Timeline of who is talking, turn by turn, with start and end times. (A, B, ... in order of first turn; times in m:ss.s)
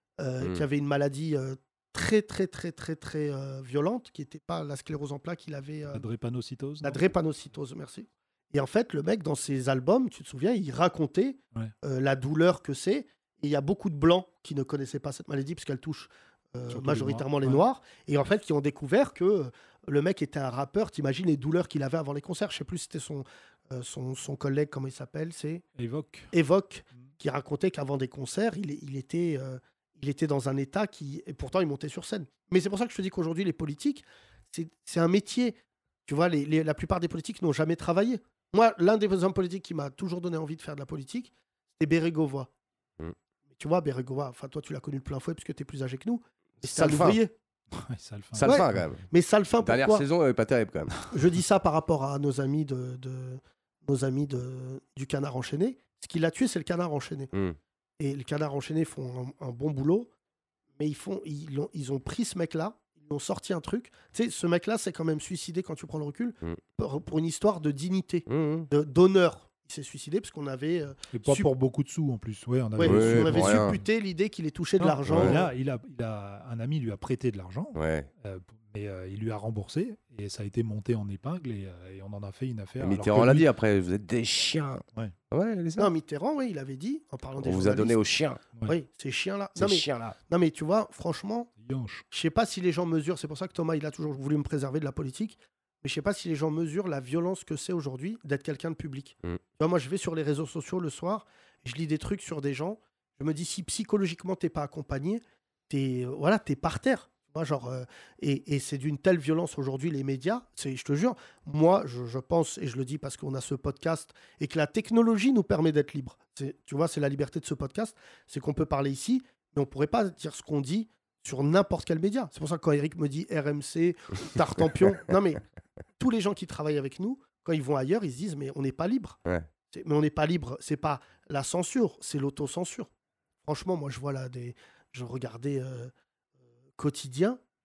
0:00.2-0:06.0 A
0:05.9-0:07.0 B
0:06.8-0:25.6 A
0:16.7-0:17.6 B
0:25.8-0:26.3 B
0:26.3-0:42.5 A
0:43.6-0:47.3 A
0:46.6-0:47.2 C
0:47.7-0:48.5 B
0:48.4-0:49.0 C
0:48.4-0:50.1 A
0:49.6-0:51.0 C
0:51.1-0:57.3 A
0:58.0-1:00.1 A
1:00.8-1:11.5 A
1:08.3-1:08.7 C
1:11.1-1:13.8 B
1:12.8-1:15.5 A
1:12.8-1:13.8 C
1:14.8-1:23.5 B
1:15.1-1:15.4 C
1:17.8-1:18.1 C
1:22.8-1:25.9 C
1:25.8-1:28.0 A
1:27.4-1:28.4 C
1:28.6-1:31.5 A
1:29.6-1:30.2 C
1:31.6-1:32.0 B
1:32.1-2:05.4 A
2:06.0-2:09.2 A
2:09.7-2:12.9 A
2:13.4-2:15.9 A
2:16.8-2:17.4 A